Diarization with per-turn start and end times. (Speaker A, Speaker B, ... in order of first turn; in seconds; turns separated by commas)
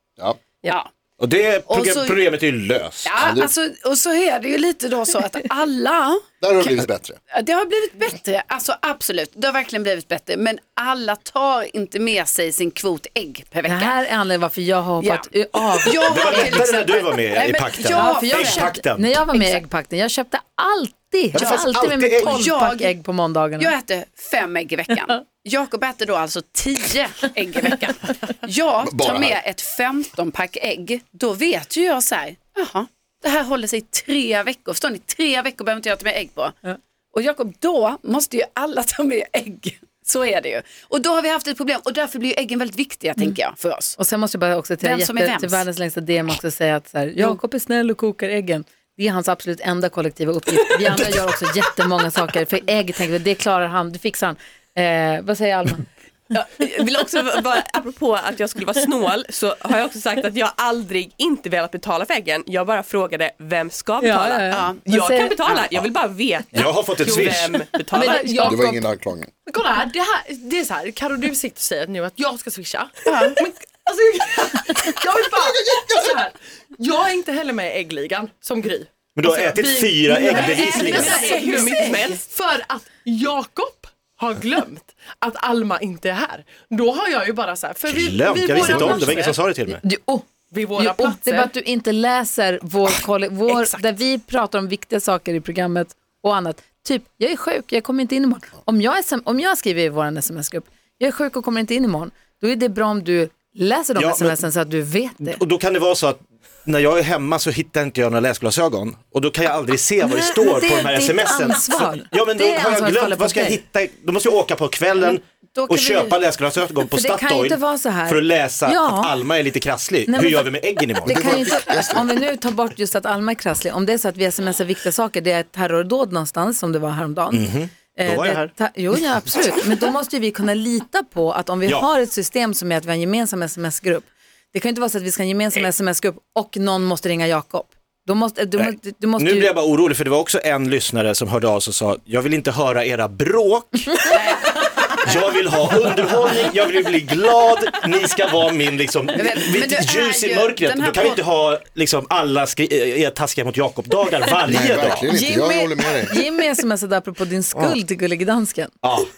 Speaker A: 1.2-3.2, Speaker B: 1.7-2.2, Speaker B: 3.0-13.9, Speaker C: 3.2-3.5, Speaker C: 6.4-7.2, Speaker D: 13.6-16.7, Speaker B: 15.0-15.3, Speaker B: 15.8-18.8, Speaker A: 16.0-19.1, Speaker D: 17.8-23.7, Speaker B: 19.3-19.6, Speaker A: 21.3-22.4, Speaker B: 21.4-22.9, Speaker B: 23.6-36.5, Speaker C: 28.8-29.4, Speaker B: 37.1-44.0, Speaker D: 44.0-55.9, Speaker B: 44.8-45.6, Speaker E: 56.3-68.2, Speaker D: 64.0-65.3, Speaker B: 64.5-64.8, Speaker A: 66.5-67.6, Speaker F: 67.0-68.7, Speaker D: 68.0-68.8, Speaker C: 68.4-69.3, Speaker F: 69.5-89.4, Speaker B: 73.0-73.4, Speaker C: 75.5-76.0, Speaker A: 79.1-81.2, Speaker B: 80.3-82.1, Speaker D: 80.9-81.4, Speaker E: 80.9-82.2, Speaker A: 87.9-89.8, Speaker D: 89.7-105.4, Speaker F: 90.5-91.5, Speaker A: 104.0-104.4, Speaker A: 105.2-121.2, Speaker D: 110.0-113.6, Speaker D: 115.5-116.1, Speaker D: 116.9-119.1, Speaker D: 120.1-139.5, Speaker C: 121.1-122.1, Speaker A: 127.3-128.5, Speaker A: 138.6-144.2, Speaker B: 144.1-145.3, Speaker A: 145.0-155.0, Speaker B: 149.1-151.2, Speaker C: 154.4-156.2, Speaker D: 155.1-158.7, Speaker A: 158.8-159.1